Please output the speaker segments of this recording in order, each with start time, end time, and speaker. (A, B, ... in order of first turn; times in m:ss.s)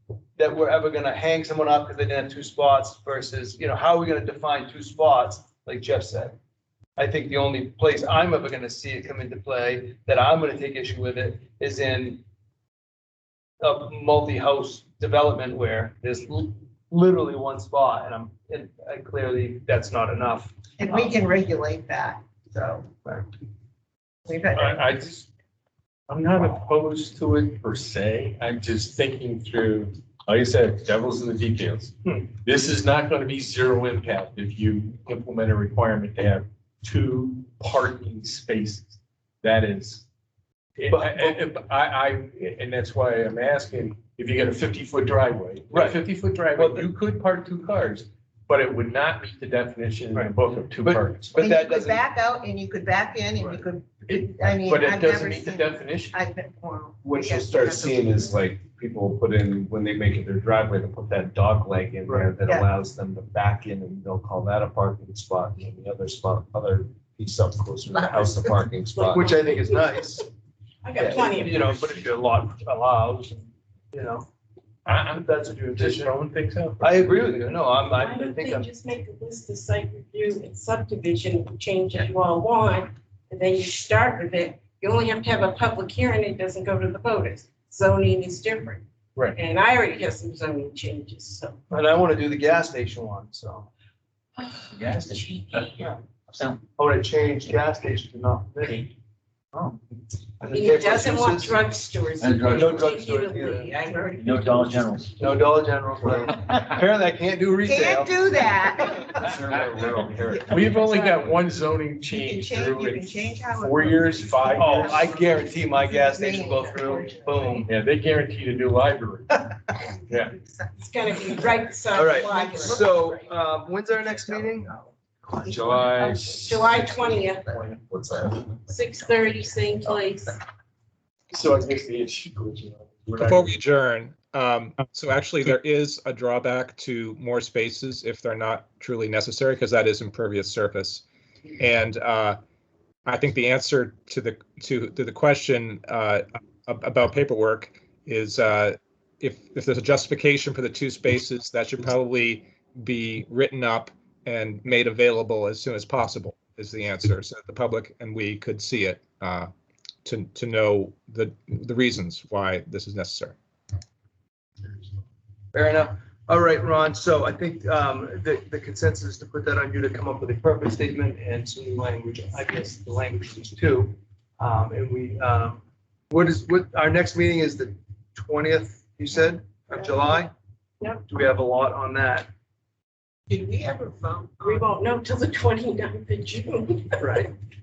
0:00.4-0:06.4 A
0:07.0-0:12.2 A
0:13.6-0:21.0 A
0:20.8-0:22.9 B
0:24.3-0:25.1 B
0:24.5-0:25.2 C
0:26.1-0:40.0 C
0:32.0-0:32.3 A
0:40.8-0:51.3 C
0:40.9-0:41.4 A
0:45.7-0:46.9 A
0:50.1-0:52.0 A
0:51.4-0:58.3 B
0:53.4-0:53.6 A
0:54.1-0:56.2 C
0:57.0-1:09.4 D
1:02.1-1:02.3 A
1:08.9-1:10.0 E
1:09.1-1:10.3 A
1:10.8-1:11.8 E
1:11.0-1:14.3 A
1:14.9-1:15.2 C
1:15.1-1:16.3 A
1:15.8-1:17.4 C
1:16.8-1:18.7 A
1:17.9-1:31.6 E
1:31.7-1:33.7 A
1:34.7-1:36.6 F
1:35.4-1:35.9 E
1:36.8-1:38.9 A
1:38.6-1:38.9 F
1:40.4-1:41.6 A
1:40.5-1:45.0 E
1:42.2-1:42.9 F
1:42.4-1:43.7 A
1:44.2-1:45.3 F
1:45.2-1:49.1 A
1:47.6-1:49.3 B
1:49.2-1:50.5 D
1:50.2-1:51.4 B
1:50.5-1:55.1 C
1:52.0-1:57.7 B
1:54.6-1:57.7 A
1:57.7-1:59.4 C
1:59.9-2:03.2 B
2:00.1-2:00.4 C
2:00.8-2:02.8 E
2:01.9-2:04.7 A
2:05.3-2:08.5 D
2:05.5-2:06.4 C
2:06.3-2:07.5 E
2:08.7-2:10.4 E
2:11.3-2:13.6 C
2:13.2-2:21.0 G
2:21.6-2:22.4 G
2:23.1-2:39.5 G
2:40.0-2:43.4 G
2:45.5-3:00.3 A
3:01.1-3:02.3 A
3:03.3-3:04.8 B
3:04.4-3:07.2 E
3:07.0-3:07.3 A